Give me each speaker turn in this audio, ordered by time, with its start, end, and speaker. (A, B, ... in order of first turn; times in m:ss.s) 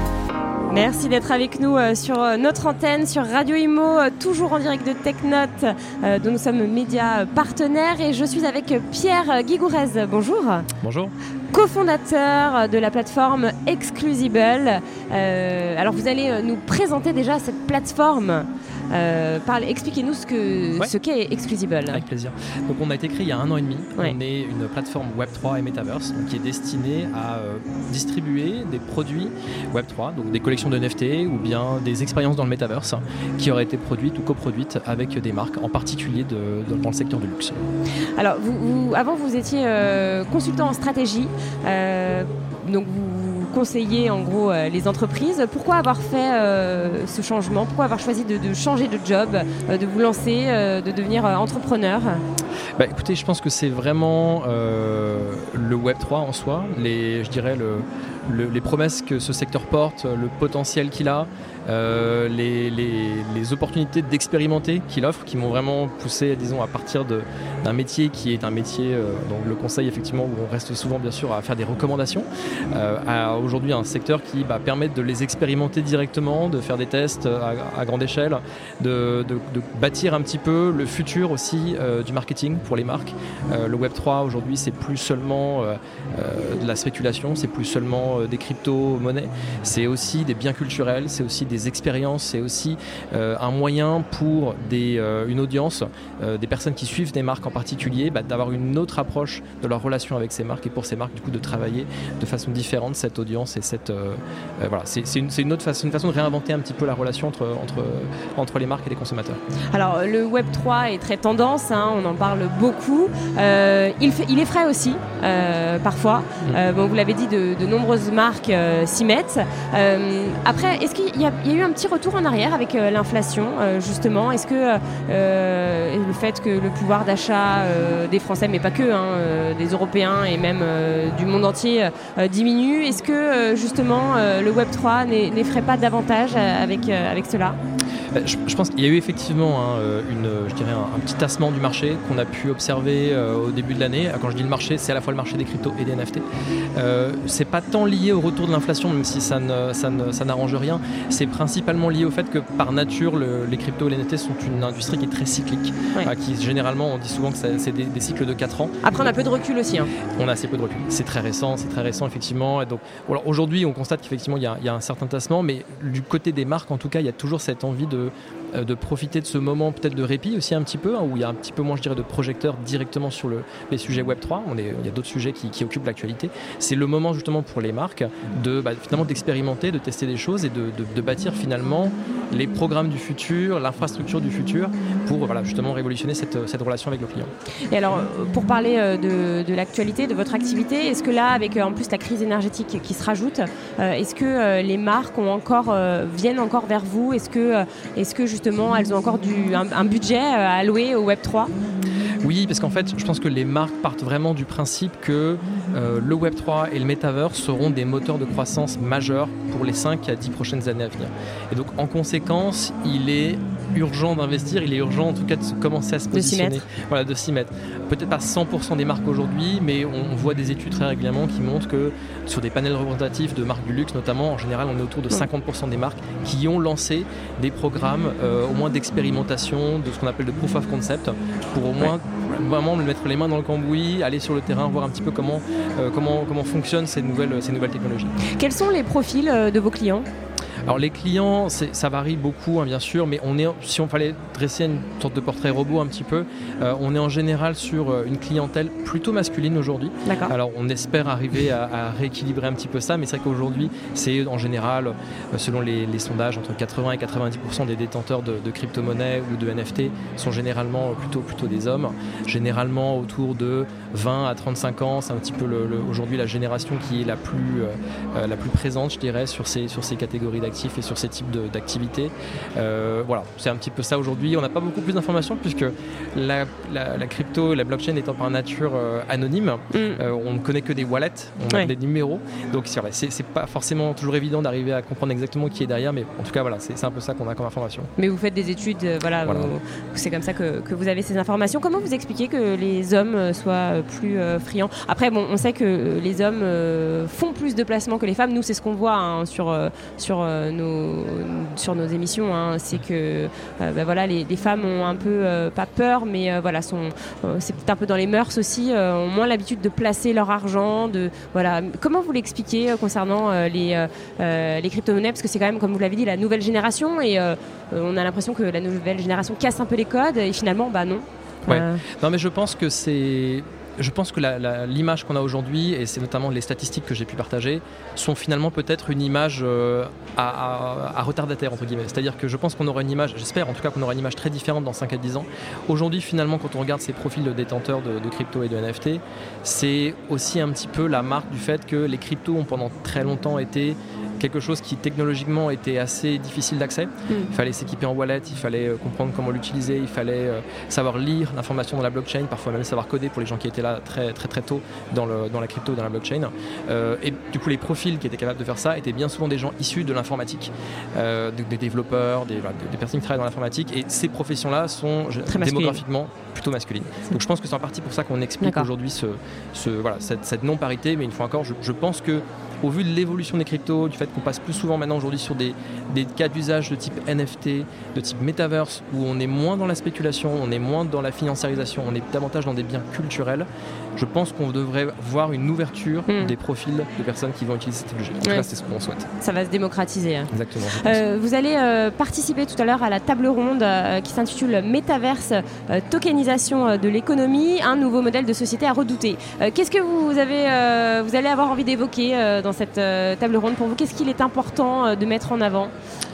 0:00.7-0:10.7 A
0:10.8-0:11.1 B
0:11.5-0:22.0 A
0:21.9-0:37.6 B
0:38.2-0:52.2 A
0:52.8-1:49.4 B
1:49.7-2:17.6 A
2:18.1-2:26.2 B
2:26.7-2:38.8 B
2:38.8-2:39.9 A
2:40.2-3:07.3 B
3:07.7-3:21.5 A
3:22.2-3:58.1 B
3:36.1-3:36.6 A
3:58.3-4:00.1 A
4:00.6-4:47.9 B
4:10.0-4:10.3 A
4:39.7-4:40.0 A
4:48.0-5:21.8 A
4:49.2-4:49.5 B
5:21.5-6:29.1 B
6:05.3-6:05.8 A
6:08.4-6:08.7 A
6:29.2-6:45.7 A
6:30.3-6:31.0 B